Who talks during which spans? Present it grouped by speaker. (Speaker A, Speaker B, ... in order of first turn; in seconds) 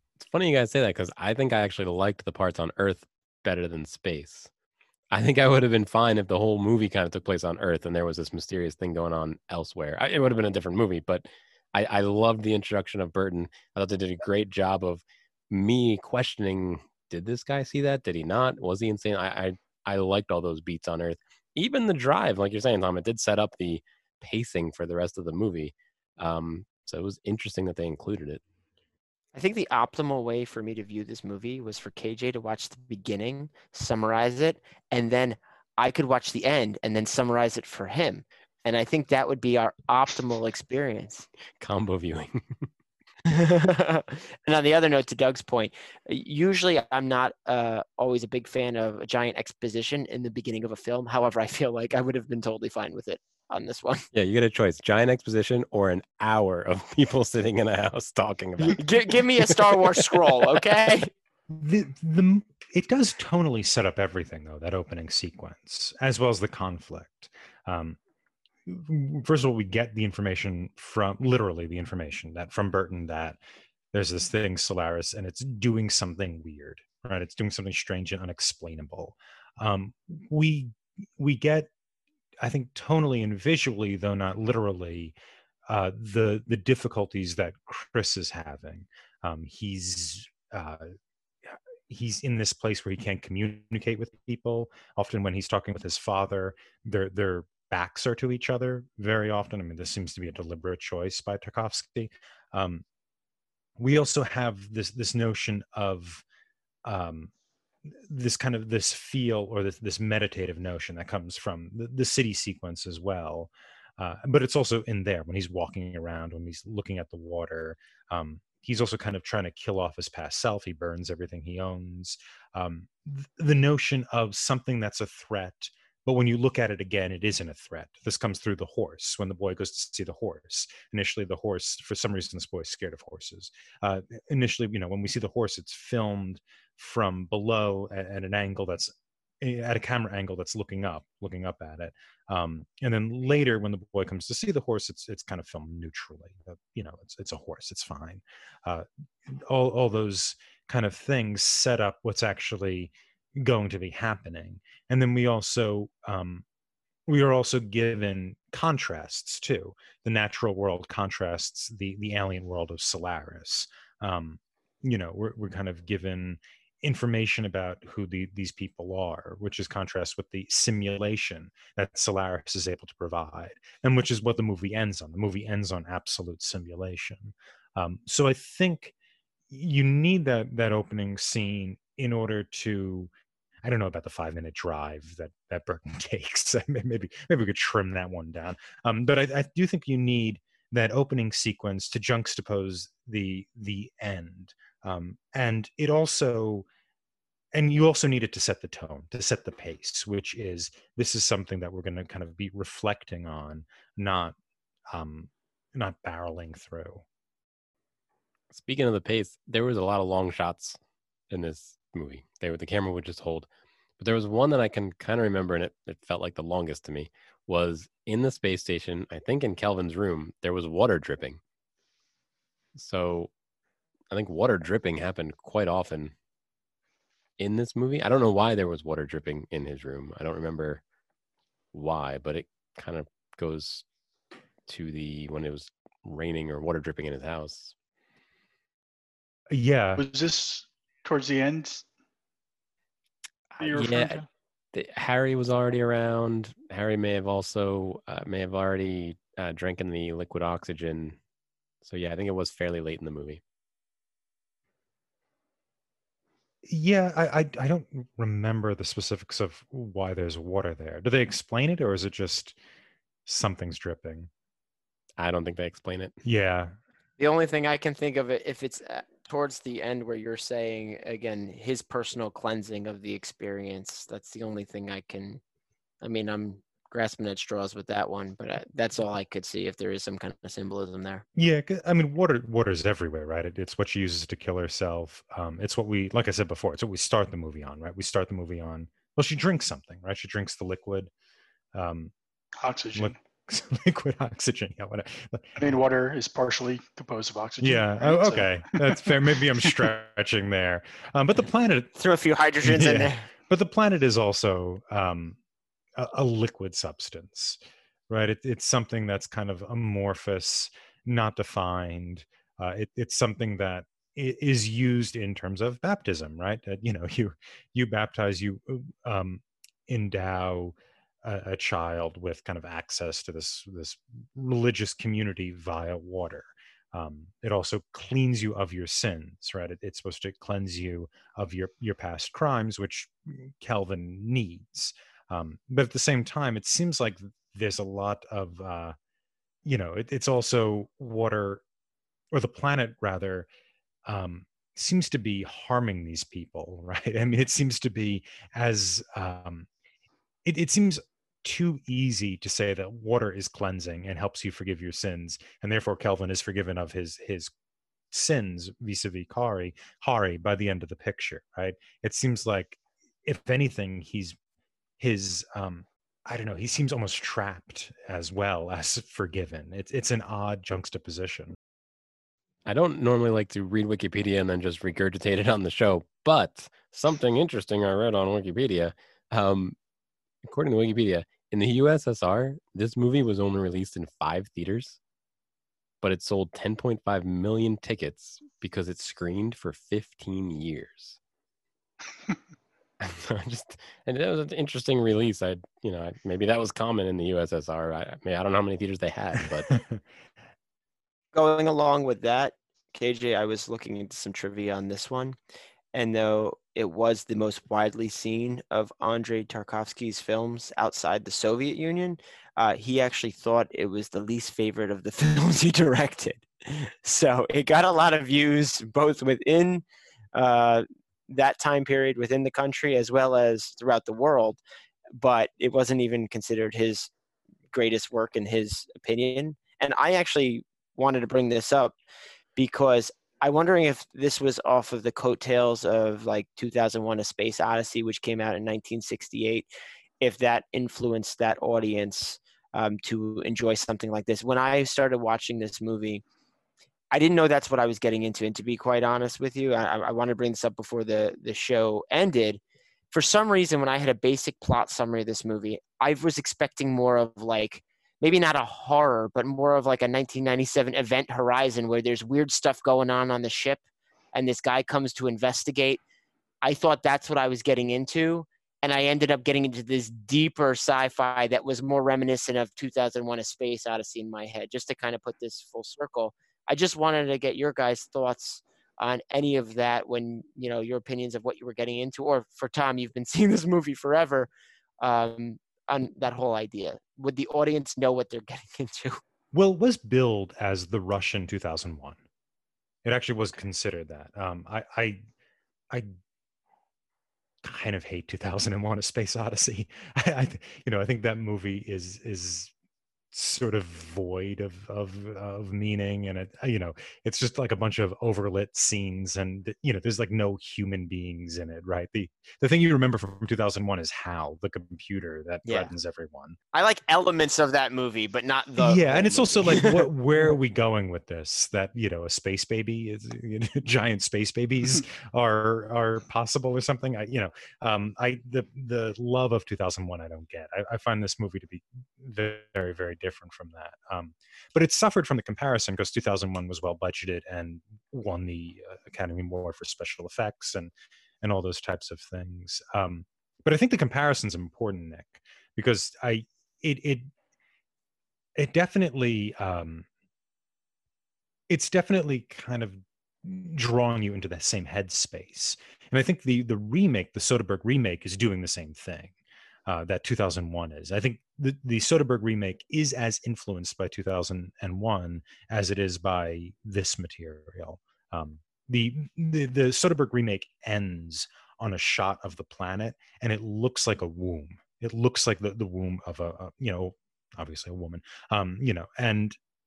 Speaker A: 0.2-4.5, 5.1-28.4, 41.6-42.6, 54.1-60.6, 208.5-210.8, 211.3-213.5, 214.0-221.4, 222.7-223.3, 224.1-226.1, 227.4-230.8, 231.7-233.8, 234.7-237.7, 243.6-251.2, 251.8-253.4, 265.2-266.1, 372.6-379.7, 380.4-385.0, 386.0-391.2, 393.0-399.7
Speaker B: 29.3-41.3, 43.3-54.0, 58.6-61.1, 267.2-275.4, 276.0-281.2, 301.9-303.2, 401.3-405.4, 405.9-419.8, 420.3-424.6, 425.1-427.1, 427.7-431.9, 432.6-439.7, 440.2-446.2, 447.1-452.6, 453.1-463.8, 464.3-466.0, 466.6-484.5, 485.0-489.2, 515.6-515.9, 516.7-520.1
Speaker C: 61.5-68.0, 68.7-73.4, 73.9-81.7, 82.4-85.1, 85.7-90.9, 91.5-102.8, 103.8-106.2, 106.8-107.3, 107.9-156.4, 157.1-178.9, 179.5-183.1, 183.6-196.7, 197.5-204.3, 204.9-207.0, 239.5-240.0, 256.6-262.6, 263.2-264.3, 266.2-266.7, 281.3-291.1, 291.7-292.1, 292.9-295.6, 297.6-301.9, 302.6-305.4, 305.9-307.6, 308.1-338.9, 339.6-341.6, 342.3-343.5, 344.1-349.7, 350.4-357.5, 358.1-364.4, 365.0-371.6, 399.7-400.0, 489.5-492.2, 493.0-495.2, 497.6-502.7, 503.3-516.5, 518.8-547.3, 548.6-550.1, 551.7-559.3, 559.9-579.6
Speaker D: 240.0-241.8, 243.6-244.2, 292.6-293.1, 295.6-299.1